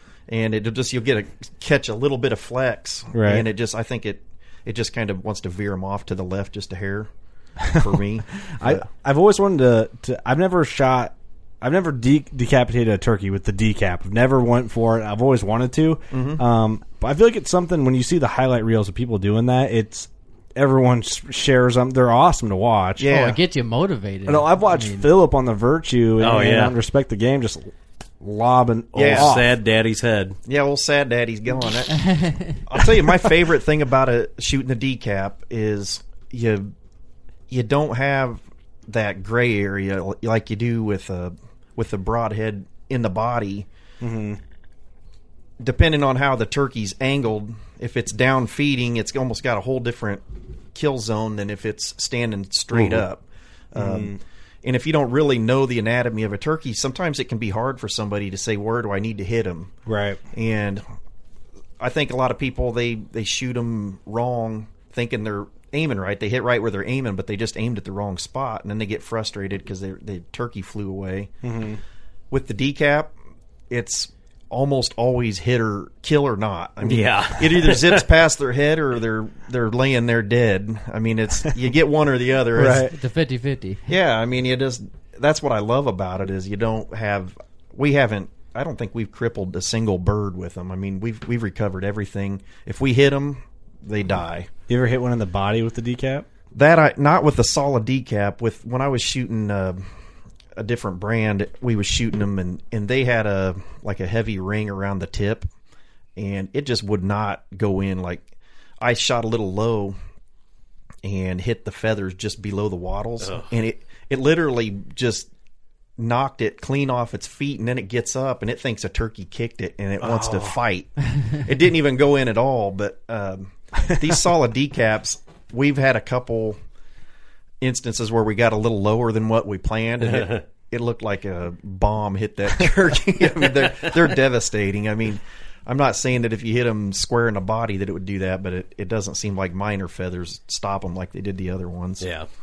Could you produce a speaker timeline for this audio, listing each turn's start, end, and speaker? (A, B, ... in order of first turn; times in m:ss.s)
0:00.3-0:07.1 A
0:03.1-0:03.5 B
0:07.7-0:08.8 A
0:07.7-0:23.2 B
0:16.1-0:16.4 A
0:23.0-0:23.4 A
0:23.1-0:25.1 C
0:24.2-0:29.5 B
0:26.2-0:26.7 D
0:28.9-0:30.4 D
0:29.0-0:29.3 A
0:30.5-0:32.0 A
0:32.0-0:32.6 C
0:32.7-0:36.7 A
0:37.5-0:43.7 A
0:44.0-0:44.4 B
0:45.6-0:59.7 A
0:52.7-0:53.0 B
0:53.7-0:54.2 B
0:59.8-1:00.2 B
1:00.3-1:00.8 A
1:01.8-1:11.3 A
1:11.4-1:11.8 B
1:12.3-1:13.1 A
1:13.7-1:22.9 A
1:16.8-1:18.0 D
1:22.5-1:22.9 B
1:22.9-1:23.8 C
1:23.9-1:34.5 A
1:34.7-1:36.3 B
1:36.5-1:39.8 A
1:40.6-1:45.5 A
1:46.2-1:48.3 A
1:48.8-1:50.0 A
1:51.0-1:55.3 A
1:53.2-1:53.5 D
1:56.0-2:06.6 A
2:00.0-2:00.6 D
2:07.6-2:22.1 A
2:10.0-2:10.4 D
2:22.0-2:22.3 D